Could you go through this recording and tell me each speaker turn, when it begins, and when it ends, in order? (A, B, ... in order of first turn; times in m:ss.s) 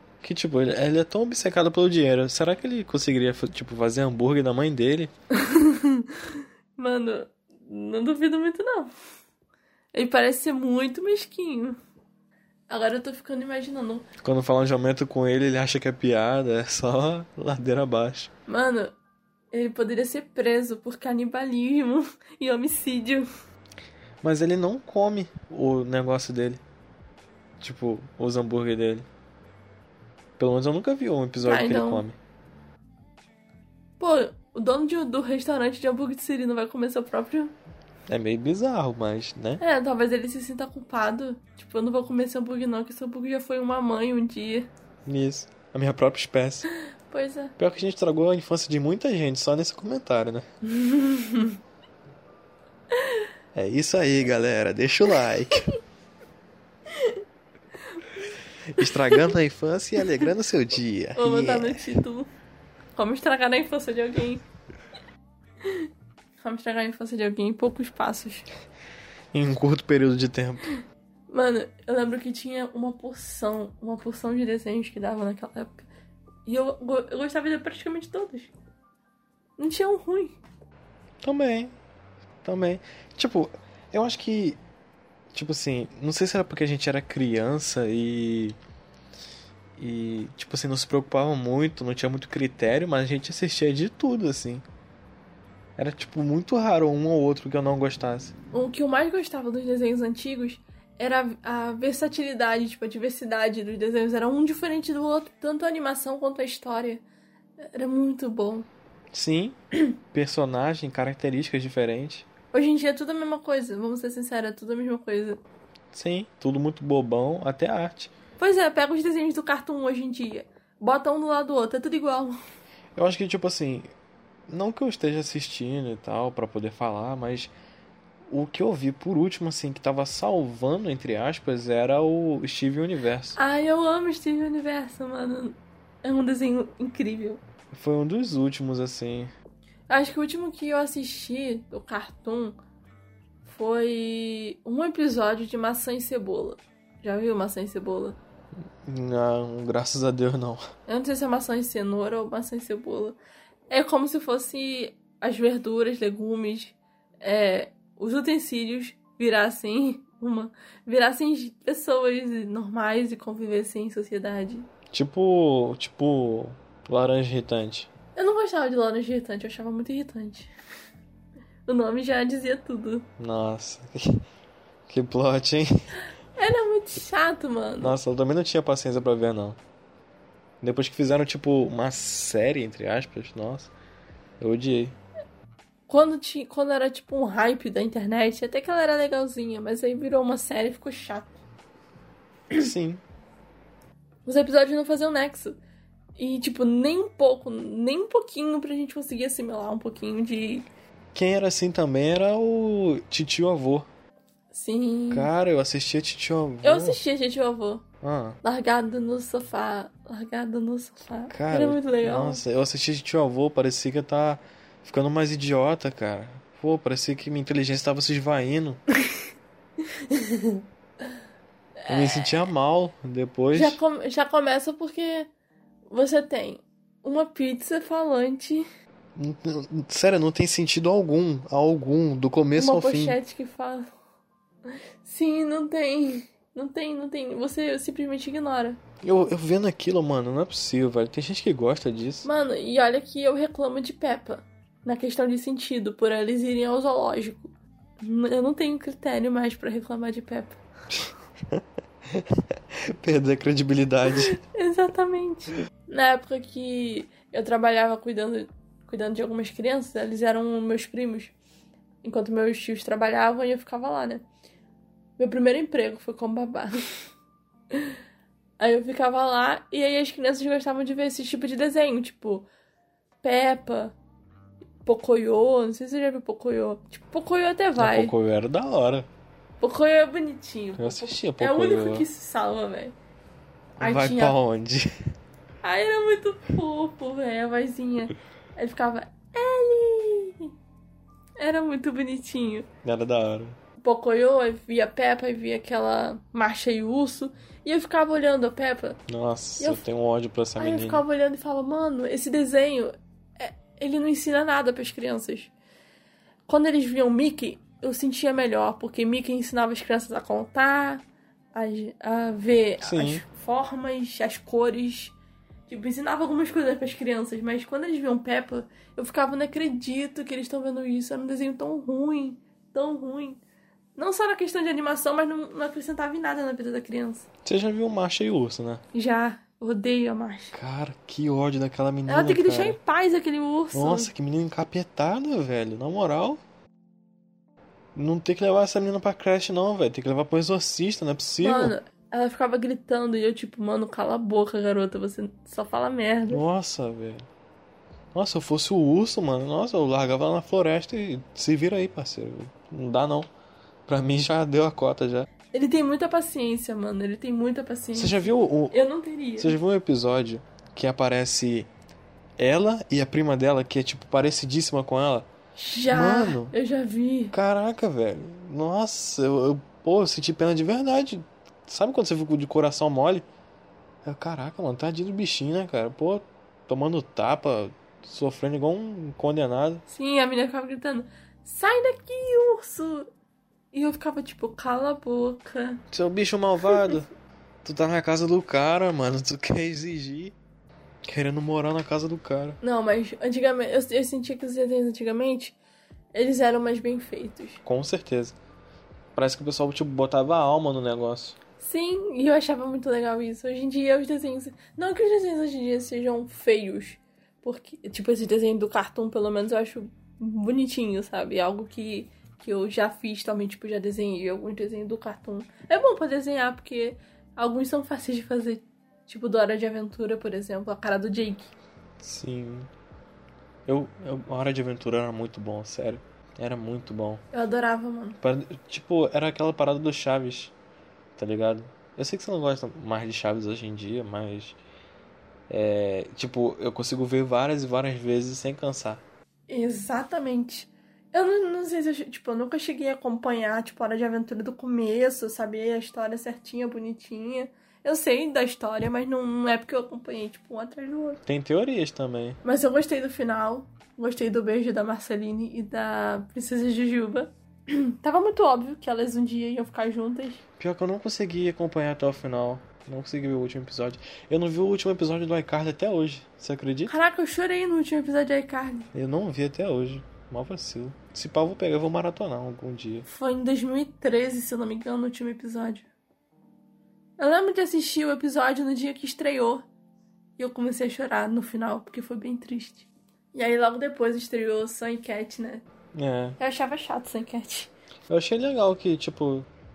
0:00.2-0:05.1 A
0:05.3-0:08.9 B
0:09.9-0:11.8 B
0:12.7-0:14.1 B
0:14.2-0:18.3 A
0:18.5-0:18.9 B
0:19.5-0:23.3 B
0:24.2-0:26.6 A
0:27.6-0:29.1 A
0:30.4-0:32.2 A
0:31.4-0:32.0 B
0:34.0-0:37.5 B
0:38.1-0:39.6 A
0:39.6-0:44.7 B
0:45.1-0:46.7 A
0:47.1-0:47.5 B
0:47.6-0:50.4 A
0:50.6-0:51.6 B
0:52.9-0:53.2 B
0:53.5-0:55.7 A
0:56.9-0:57.2 B
0:58.7-1:02.0 A
0:58.8-0:59.3 B
1:01.2-1:02.3 B
1:03.0-1:04.4 B
1:06.4-1:08.5 B
1:09.3-1:10.7 A
1:11.3-1:15.9 B
1:16.5-1:18.5 B
1:19.6-1:20.4 B
1:21.2-1:21.7 A
1:22.4-1:24.6 A
1:25.3-1:28.6 A
1:29.8-1:34.6 A
1:35.8-1:38.3 A
1:38.5-1:47.0 B
1:47.6-1:48.7 B
1:49.1-1:49.6 A
1:50.1-1:52.3 A
1:52.5-1:55.4 B
1:55.9-1:58.1 A
1:58.4-2:02.4 B
2:03.0-2:03.9 A
2:04.5-2:07.5 A
2:08.3-2:13.4 A
2:13.4-2:17.4 B
2:17.7-2:19.3 A
2:19.9-2:22.6 B
2:23.4-2:28.2 B
2:28.8-2:30.6 A
2:30.9-2:33.2 B
2:33.7-2:44.7 B
2:44.9-2:47.9 A
2:48.2-2:50.5 B
2:51.7-2:53.1 B
2:53.2-2:54.2 A
2:54.9-2:55.9 A
2:56.4-2:58.0 B
2:57.8-2:59.6 A
3:00.6-3:03.7 A
3:04.4-3:05.0 A
3:05.9-3:11.4 B
3:12.6-3:13.0 A
3:14.3-3:15.6 B
3:16.2-3:20.7 B
3:21.1-3:23.9 A
3:24.5-3:25.3 B
3:25.1-3:27.0 A
3:26.6-3:27.9 B
3:28.0-3:28.4 A
3:28.4-3:32.4 B
3:31.3-3:38.8 A
3:39.9-3:40.6 B
3:41.8-3:42.4 B
3:41.9-3:43.8 A
3:43.5-3:45.3 B
3:45.9-3:48.7 B
3:49.2-3:53.2 A
3:52.6-3:53.9 B
3:55.0-3:58.8 B
3:59.0-4:02.3 A
4:02.2-4:10.6 B
4:10.9-4:14.4 A
4:14.1-4:21.3 B
4:22.0-4:24.2 B
4:25.2-4:26.8 B
4:28.6-4:32.5 B
4:33.2-4:34.0 B
4:34.9-4:38.1 B
4:37.8-4:39.1 A
4:39.6-4:42.9 B
4:40.8-4:42.1 A
4:43.8-4:44.9 A
4:43.8-4:44.4 B
4:45.6-4:50.5 B
4:51.4-4:52.7 B
4:52.8-4:53.6 A
4:53.8-4:59.0 B
4:59.1-5:01.0 A
5:00.6-5:05.5 B
5:06.5-5:15.2 B
5:12.8-5:13.2 A
5:15.7-5:23.4 B
5:24.0-5:27.2 B
5:27.4-5:28.8 A
5:28.9-5:30.6 B
5:30.5-5:32.8 A
5:32.1-5:34.1 B
5:33.7-5:36.4 A
5:38.0-5:41.8 A
5:41.4-5:46.4 B
5:46.3-5:47.2 A
5:48.1-5:53.3 A
5:53.9-5:55.3 A
5:55.5-5:59.6 B
5:58.0-5:58.8 A
5:59.4-6:01.7 A
6:02.4-6:05.3 A
6:05.6-6:07.3 B
6:05.9-6:06.5 A
6:07.3-6:13.2 A
6:14.0-6:19.8 A
6:19.9-6:23.1 B
6:23.7-6:25.8 B
6:25.9-6:27.1 A
6:27.6-6:30.4 A
6:31.1-6:32.6 A
6:32.6-6:35.6 B
6:36.1-6:37.6 B
6:37.6-6:38.4 A
6:39.2-6:41.4 A
6:41.6-7:01.5 B
7:02.0-7:02.7 A
7:03.7-7:07.2 A
7:07.3-7:08.2 B
7:08.2-7:10.5 A
7:11.2-7:14.6 A
7:15.5-7:19.0 A
7:19.5-7:31.2 B
7:31.3-7:32.4 A
7:32.4-7:40.4 B
7:40.6-7:46.9 A
7:46.9-7:48.9 B
7:48.9-7:53.1 A
7:53.1-7:55.9 B
7:57.2-7:59.6 B
8:00.4-8:05.6 B
8:05.9-8:06.4 A
8:06.4-8:07.7 B
8:08.1-8:09.5 A